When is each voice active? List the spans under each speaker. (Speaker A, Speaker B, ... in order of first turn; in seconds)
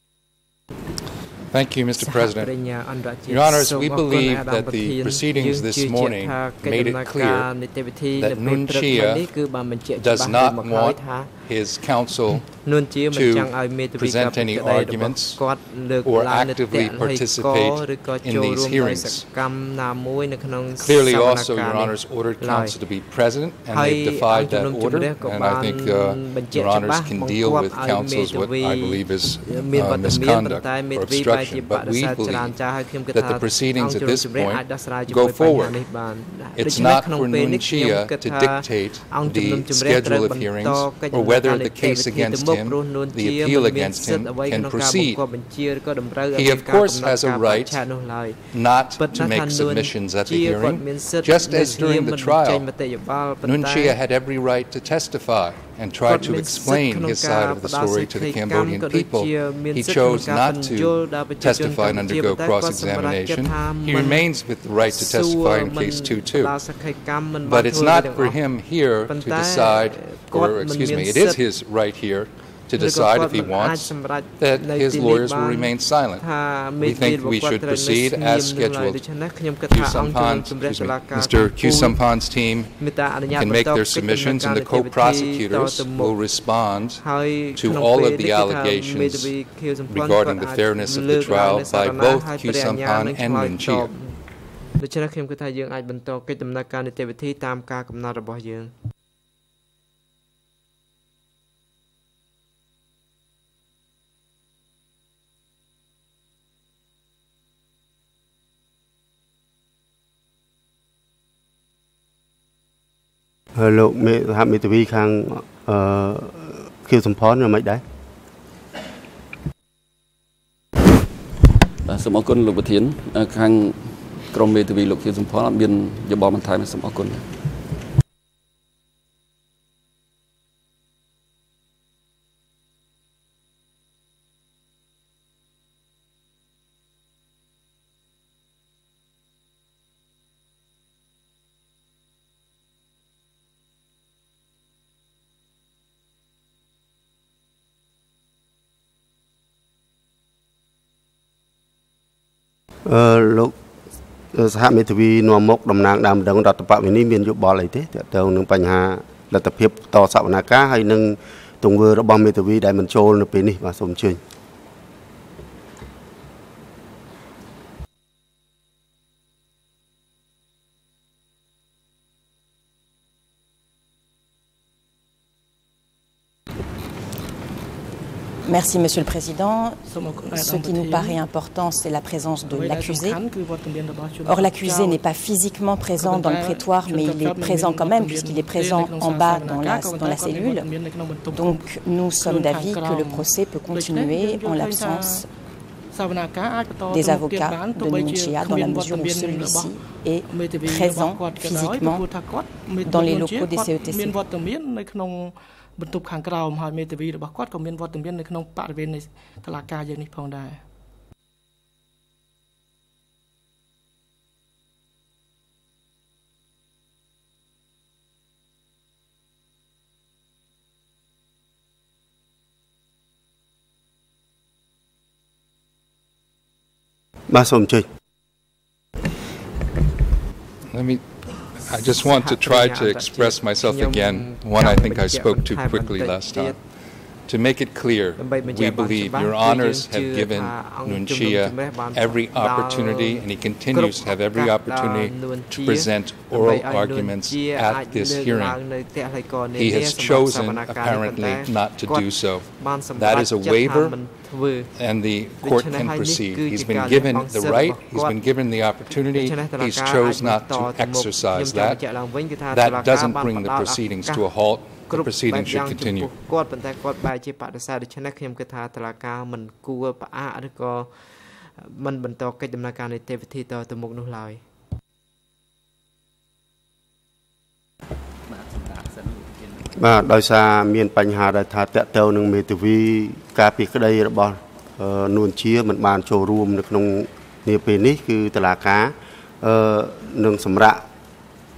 Speaker A: 1.5-2.5, 3.3-7.5, 8.2-9.3, 10.0-12.5, 13.1-15.4, 16.0-19.3, 20.8-32.6, 33.1-35.8, 36.6-45.2, 46.3-47.8, 48.5-52.7, 53.4-66.5, 67.4-76.2, 76.8-79.0, 79.7-82.7, 83.3-87.0, 87.5-89.3, 89.9-93.9, 230.7-231.0, 231.6-236.6, 237.3-248.6, 249.5-254.0, 254.8-261.8, 262.5-266.1
Speaker B: 2.0-11.3, 12.6-22.8, 23.7-48.4, 49.0-54.0, 56.0-64.3, 64.9-68.4, 69.0-71.4, 72.7-82.0, 82.8-86.2, 87.0-94.2, 94.8-98.7, 231.8-236.6, 238.2-254.7, 255.4-258.2, 259.1-264.3, 264.8-274.4
Speaker C: 113.5-117.8, 152.8-153.5, 154.3-164.2, 227.3-227.8, 279.8-290.8
Speaker D: 121.8-127.2
Speaker E: 178.4-183.2, 184.2-190.7, 191.3-195.2, 196.9-202.1, 202.8-204.2
Speaker F: 179.8-181.2, 182.5-185.0, 185.9-195.3, 195.9-210.6